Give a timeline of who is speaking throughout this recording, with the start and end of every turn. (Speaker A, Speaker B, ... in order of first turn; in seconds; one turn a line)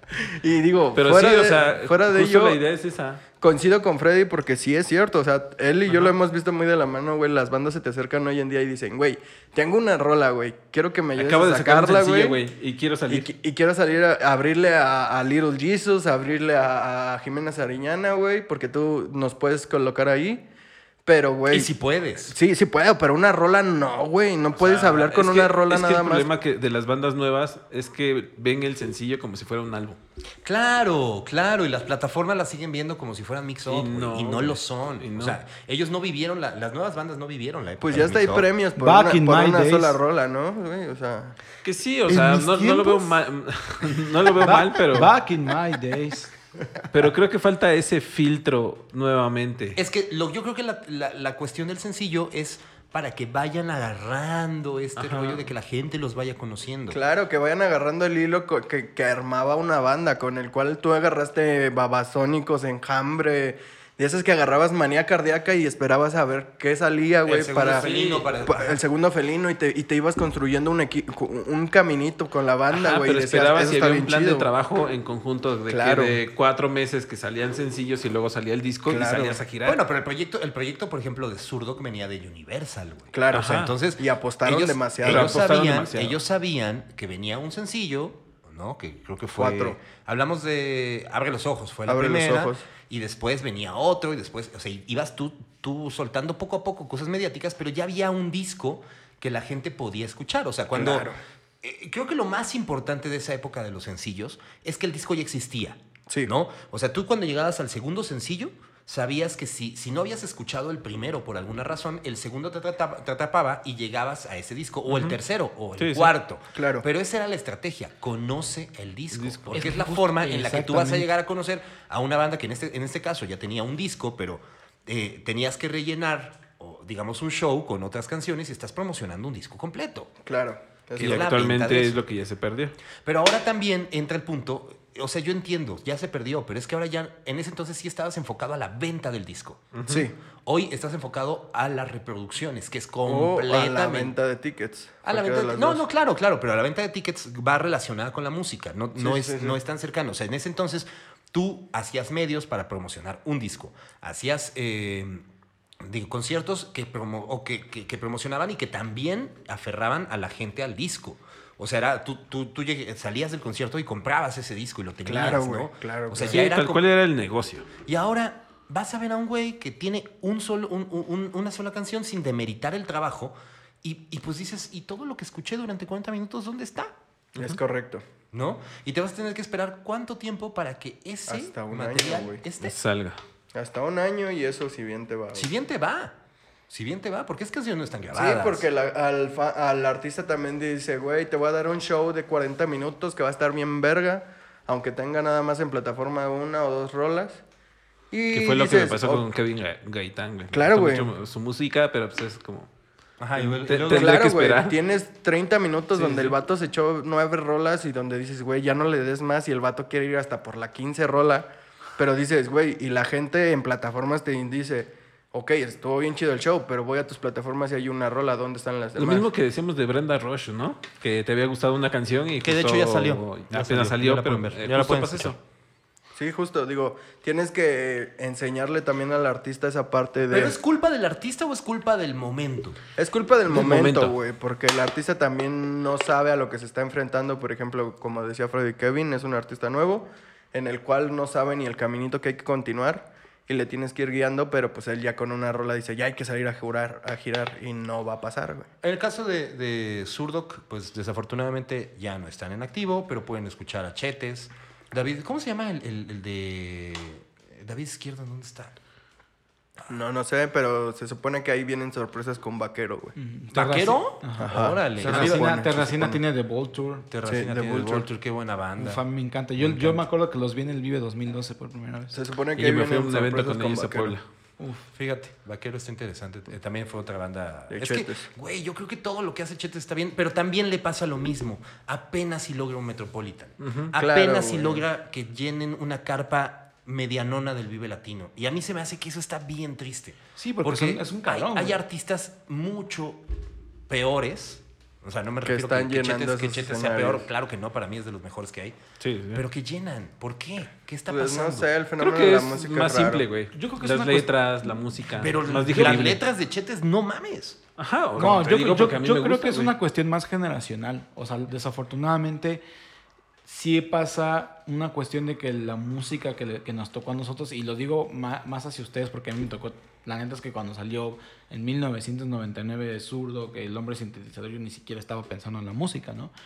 Speaker A: 0.1-2.6
Speaker B: 0.9-3.2
Speaker A: 3.4-12.4
Speaker B: 11.2-13.3
Speaker A: 13.1-20.4
Speaker A: 21.1-21.7
Speaker C: 21.5-22.4
Speaker A: 22.3-26.3
Speaker B: 24.6-30.0
Speaker C: 30.4-38.5
Speaker B: 33.6-35.4
Speaker A: 37.8-41.4
Speaker D: 38.8-40.0
Speaker B: 41.6-45.1
Speaker C: 42.1-43.1
Speaker D: 44.4-46.3
Speaker B: 46.9-49.8
Speaker C: 49.8-57.0
Speaker B: 55.0-55.5
Speaker A: 56.9-74.5
Speaker C: 67.2-68.8
Speaker B: 67.8-68.2
Speaker B: 72.7-79.8
Speaker A: 75.7-76.2
Speaker A: 78.8-79.4
Speaker C: 79.6-130.1
Speaker A: 83.1-85.4
Speaker B: 83.3-83.7
Speaker B: 85.0-86.2
Speaker A: 89.3-89.8
Speaker A: 91.9-92.6
Speaker A: 100.7-101.2
Speaker B: 114.9-115.2
Speaker B: 115.8-116.1
Speaker A: 116.5-116.8
Speaker B: 119.1-119.7
Speaker D: 119.5-121.1
Speaker A: 130.2-131.3
Speaker C: 130.9-132.0
Speaker B: 131.0-132.8
Speaker C: 133.0-139.7
Speaker B: 139.7-140.1
Speaker A: 139.9-140.1
Speaker C: 140.4-144.1
Speaker A: 143.0-145.9
Speaker C: 145.0-155.2
Speaker A: 148.9-149.6
Speaker C: 155.8-166.8
Speaker A: 165.0-166.4
Speaker B: 166.2-167.7
Speaker C: 167.8-176.9
Speaker A: 177.3-178.0
Speaker C: 178.3-182.8
Speaker A: 181.3-182.4
Speaker B: 182.6-183.2
Speaker A: 183.5-185.5
Speaker C: 185.3-186.2
Speaker C: 186.7-188.7
Speaker A: 188.1-197.4
Speaker A: 198.1-199.3
Speaker B: 198.3-202.7
Speaker A: 200.5-201.1
Speaker C: 203.2-204.2
Speaker B: 203.3-204.8
Speaker A: 203.8-219.3
Speaker B: 205.9-206.3
Speaker B: 219.0-225.3
Speaker C: 222.4-225.4
Speaker A: 226.1-230.6
Speaker C: 230.3-232.8
Speaker A: 233.0-248.7
Speaker B: 233.5-234.1
Speaker C: 248.8-258.8
Speaker A: 259.9-263.1
Speaker D: 263.1-267.1
Speaker C: 263.5-265.8
Speaker A: 264.4-266.2
Speaker C: 267.1-269.0
Speaker A: 267.2-268.1
Speaker D: 268.8-272.2
Speaker C: 269.6-270.0
Speaker A: 272.1-274.2
Speaker B: 272.6-274.2
Speaker D: 274.6-274.9
Speaker C: 274.9-293.2
Speaker A: 277.7-278.3
Speaker B: 283.6-283.9
Speaker A: 283.9-284.8
Speaker D: 290.4-291.8
Speaker C: 293.9-298.8
Speaker A: 295.4-297.3
Speaker B: 299.0-299.4
Speaker C: 299.3-301.7
Speaker A: 301.1-303.2
Speaker B: 302.0-306.2
Speaker D: 303.5-304.3
Speaker C: 305.2-307.6
Speaker D: 305.8-306.0
Speaker B: 307.8-309.7
Speaker D: 308.1-312.6
Speaker D: 313.4-326.3